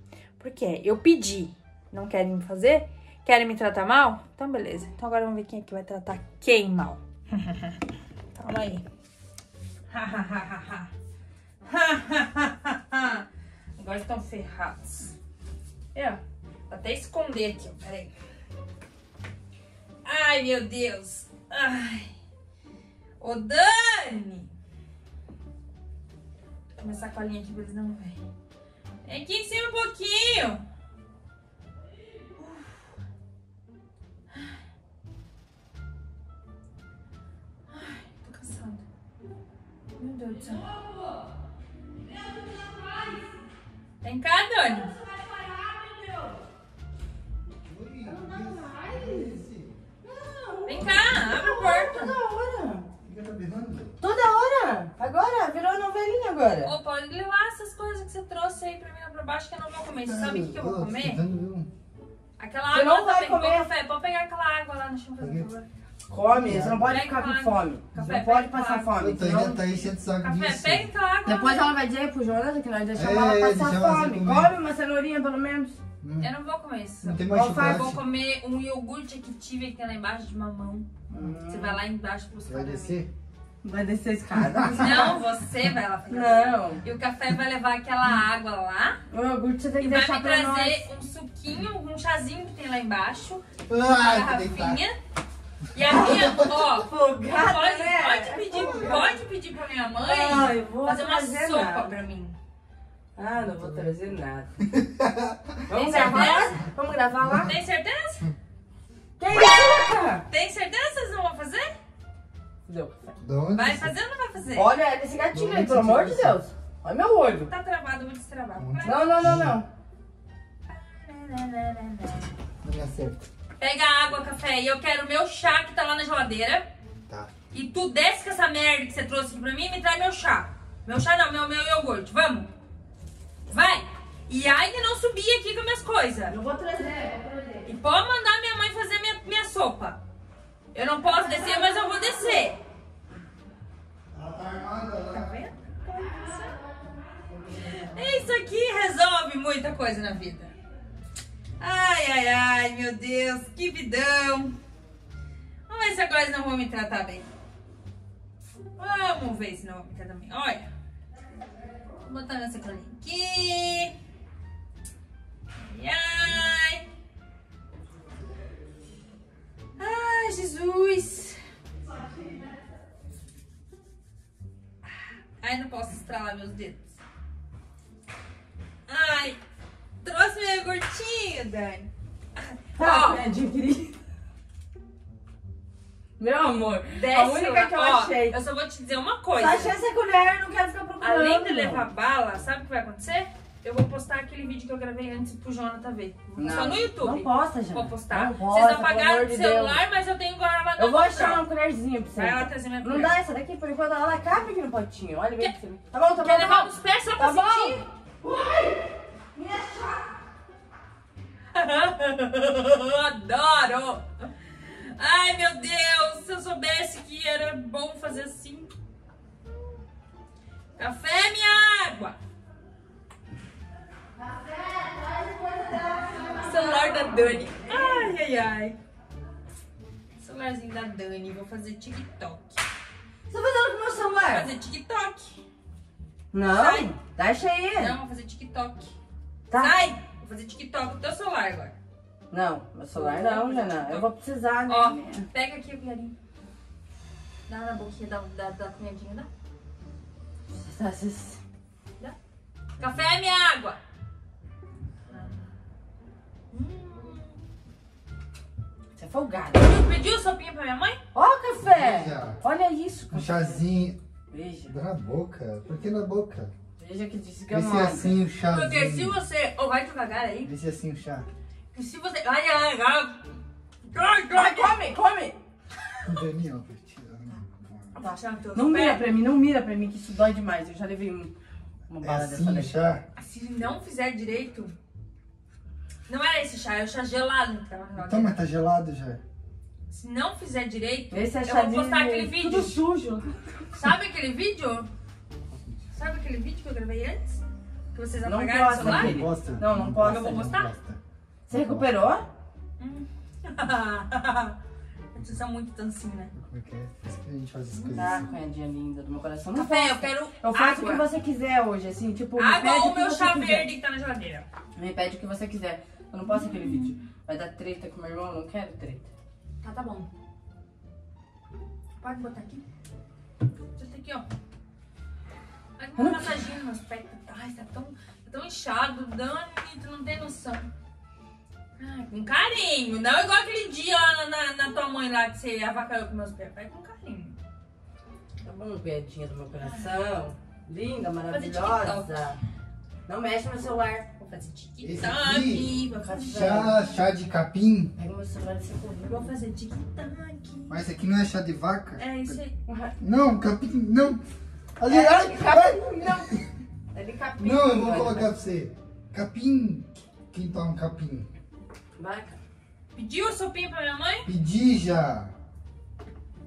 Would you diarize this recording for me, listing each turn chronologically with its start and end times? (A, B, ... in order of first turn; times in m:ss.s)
0:00.4-0:07.8 A
0:08.4-0:08.8 A
0:09.9-0:10.9 A
0:11.6-0:13.3 A
0:13.8-0:15.1 A
0:16.7-0:18.1 A
0:20.0-0:22.1 A
0:23.2-0:24.5 A
0:26.8-0:28.2 A
0:29.0-0:30.6 A
0:32.4-0:32.9 A
0:37.7-0:38.8 A
0:40.0-0:40.8 A
0:42.4-0:43.1 B
0:44.0-0:44.9 A
0:44.9-0:46.4 B
0:47.6-0:49.8 C
0:48.0-0:49.3 B
0:50.0-0:52.9 B
0:50.7-0:52.2 A
0:53.0-0:54.0 C
0:54.0-0:56.7 B
0:56.6-1:01.2 A
1:00.0-1:01.7 C
1:02.4-1:05.7 A
1:02.7-1:03.7 B
1:05.2-1:05.5 C
1:06.1-1:09.6 B
1:06.3-1:07.0 C
1:06.9-1:08.9 A
1:09.0-1:10.9 C
1:10.2-1:11.7 A
1:11.3-1:15.8 B
1:13.0-1:14.5 C
1:16.0-1:16.3 C
1:16.2-1:20.9 A
1:17.0-1:18.0 C
1:17.3-1:17.9 B
1:21.1-1:21.8 B
1:21.4-1:23.0 A
1:22.5-1:23.1 C
1:23.6-1:25.2 B
1:24.4-1:25.0 C
1:24.7-1:29.0 A
1:26.1-1:26.8 B
1:29.1-1:30.8 B
1:29.8-1:35.0 A
1:33.7-1:34.8 C
1:35.7-1:42.4 A
1:35.9-1:39.2 B
1:35.9-1:36.6 C
1:40.0-1:42.0 B
1:43.2-1:44.5 B
1:44.6-1:46.0 C
1:45.7-1:47.5 B
1:45.7-1:46.6 A
1:47.3-1:47.5 C
1:47.4-1:48.3 A
1:49.2-1:50.2 B
1:50.3-1:51.7 A
1:52.7-1:53.2 B
1:53.2-1:54.0 C
1:53.5-1:54.7 A
1:54.5-1:57.5 B
1:55.3-1:56.4 C
1:57.5-1:59.3 A
1:58.6-1:59.6 C
1:58.8-1:59.7 B
2:00.7-2:02.2 A
2:02.6-2:03.3 C
2:03.6-2:06.7 A
2:07.5-2:12.5 A
2:13.5-2:16.4 A
2:16.3-2:17.6 B
2:17.6-2:20.0 A
2:20.7-2:22.6 A
2:24.1-2:25.3 C
2:25.1-2:26.6 A
2:27.9-2:30.5 A
2:31.6-2:34.5 A
2:35.7-2:37.3 A
2:38.8-2:40.7 A
2:42.0-2:43.9 A
2:45.6-2:46.8 A
2:49.8-2:51.4 A
2:55.4-2:57.0 A
2:58.9-2:59.4 A
3:00.0-3:03.2 A
3:02.8-3:03.9 B
3:06.2-3:08.4 B
3:06.9-3:09.8 A
3:09.4-3:11.9 B
3:11.0-3:21.4 A
3:16.4-3:19.8 B
3:20.8-3:30.1 B
3:22.2-3:23.2 A
3:26.2-3:27.8 A
3:31.5-3:34.1 A
3:34.7-3:38.7 A
3:40.8-3:42.2 A
3:44.2-3:48.1 B
3:46.4-3:48.8 A
3:50.2-3:52.6 A
3:53.3-3:54.5 B
3:54.2-3:55.4 A
3:56.3-3:58.0 B
3:56.5-3:56.9 A
3:57.7-3:58.9 A
3:59.5-3:59.8 B
3:59.6-4:01.8 A
4:02.3-4:05.3 B
4:02.9-4:04.1 A
4:04.7-4:06.1 A
4:07.5-4:09.3 A
4:10.5-4:11.4 B
4:12.8-4:13.8 A
4:15.1-4:15.4 A
4:16.5-4:17.3 A
4:19.0-4:19.7 B
4:19.5-4:21.0 A
4:21.1-4:23.6 B
4:21.6-4:22.4 C
4:23.1-4:24.0 C
4:24.3-4:24.7 B
4:24.7-4:26.5 C
4:26.8-4:28.2 B
4:27.5-4:29.2 C
4:28.5-4:30.5 A
4:30.4-4:31.3 C
4:31.7-4:33.2 A
4:33.8-4:34.8 A
4:34.3-4:35.4 B
4:36.0-4:38.0 C
4:38.0-4:39.1 A
4:38.0-4:41.3 B
4:41.9-4:42.7 B
4:42.0-4:43.0 C
4:43.2-4:44.7 A
4:46.1-4:48.4 A
4:48.0-4:49.2 C
4:49.9-4:52.8 A
4:51.1-4:53.9 B
4:53.7-4:54.9 A
4:55.9-4:57.4 A
4:57.9-4:59.2 A
4:58.2-5:00.5 B
4:58.8-5:01.9 C
5:00.1-5:00.7 A
5:01.5-5:02.3 B
5:02.8-5:04.6 A
5:05.1-5:06.3 A
5:06.4-5:08.3 C
5:07.7-5:08.3 A
5:07.9-5:13.7 B
5:09.5-5:11.1 A
5:12.4-5:14.4 A
5:14.8-5:19.1 B
5:16.3-5:17.0 A
5:19.6-5:20.1 A
5:22.0-5:22.6 A
5:23.8-5:24.3 A
5:25.8-5:30.7 A
5:26.0-5:26.4 B
5:31.8-5:37.4 A
5:38.4-5:42.4 B
5:39.6-5:40.0 A
5:41.3-5:42.2 A
5:43.1-5:44.1 B
5:44.2-5:46.6 A
5:44.8-5:47.9 C
5:46.0-5:46.9 B
5:48.0-5:49.3 B
5:49.1-5:50.8 A
5:50.7-5:52.4 C
5:52.0-5:52.6 A
5:52.7-5:53.0 B
5:53.0-5:54.2 C
5:54.8-5:56.4 C
5:54.8-5:58.3 B
5:57.4-6:01.3 C
6:02.0-6:02.4 B
6:03.0-6:04.3 A
6:04.3-6:05.3 C